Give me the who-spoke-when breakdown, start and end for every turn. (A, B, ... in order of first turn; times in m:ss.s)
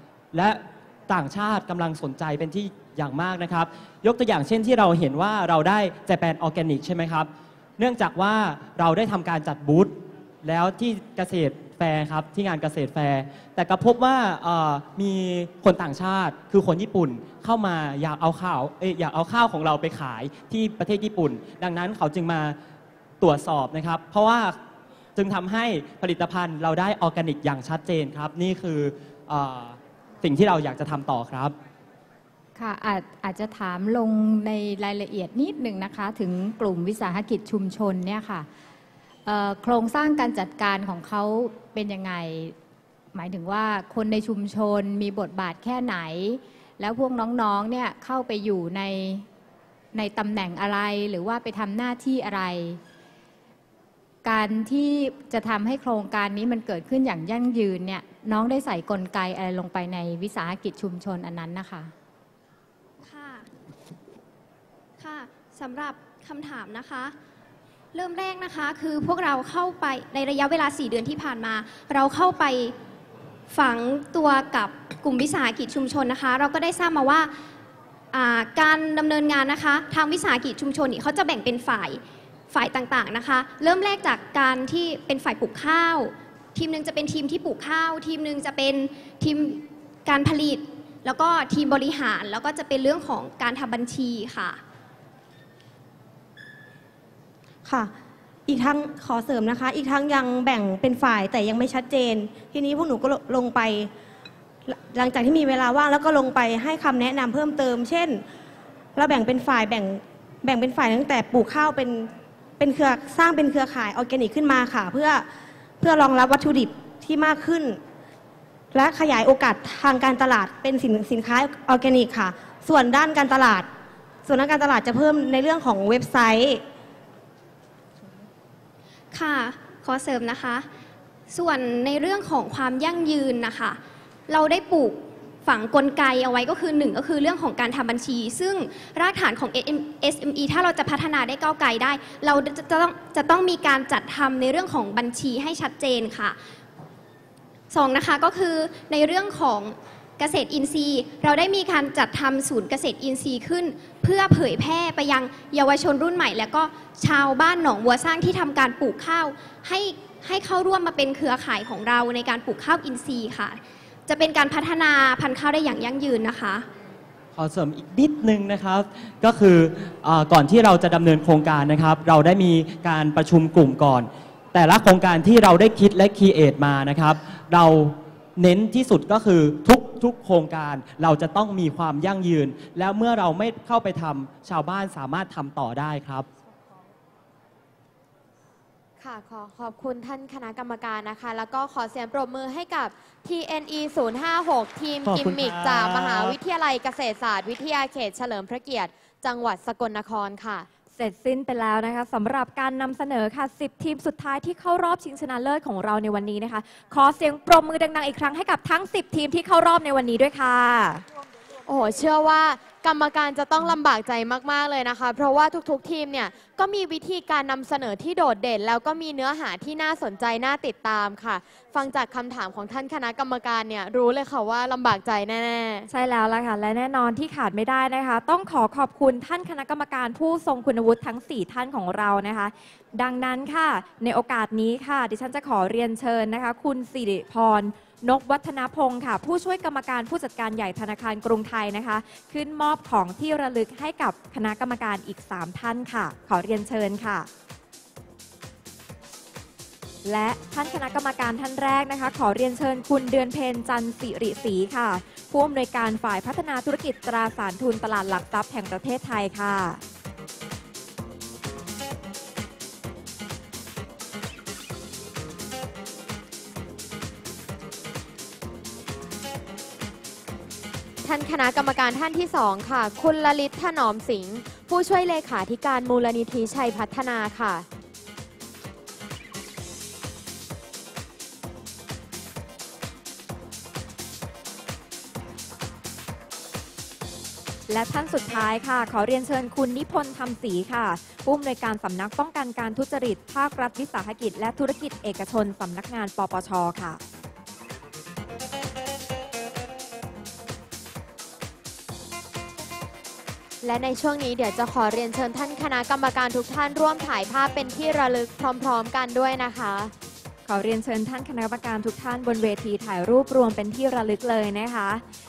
0:00.3-0:22.6 A
0:23.2-0:24.6 A
0:25.2-0:31.6 A
0:32.5-0:38.5 B
0:39.2-0:42.5 B
0:43.1-0:49.2 B
0:49.9-0:52.8 B
0:54.2-1:01.9 B
1:03.0-1:03.5 C
1:05.0-1:07.1 C
1:07.9-1:12.7 C
1:13.5-1:17.3 C
1:18.1-1:34.6 C
1:37.6-1:37.9 D
1:38.5-1:43.9 D
1:44.7-1:48.2 D
1:49.0-1:55.2 D
1:55.8-1:57.8 D
1:58.7-2:03.7 D
2:04.2-2:06.6 D
2:09.1-2:10.7 C
2:11.3-2:26.4 C
2:27.7-2:46.6 C
2:47.3-3:06.3 A
3:09.0-3:20.7 E
3:15.0-3:16.3 A
3:21.0-3:31.0 F
3:31.6-3:45.9 E
3:45.9-4:07.3 F
4:10.0-4:19.8 F
4:31.0-4:37.6 E
4:47.7-4:57.0 F
5:03.6-5:09.9 E
5:10.5-5:15.0 F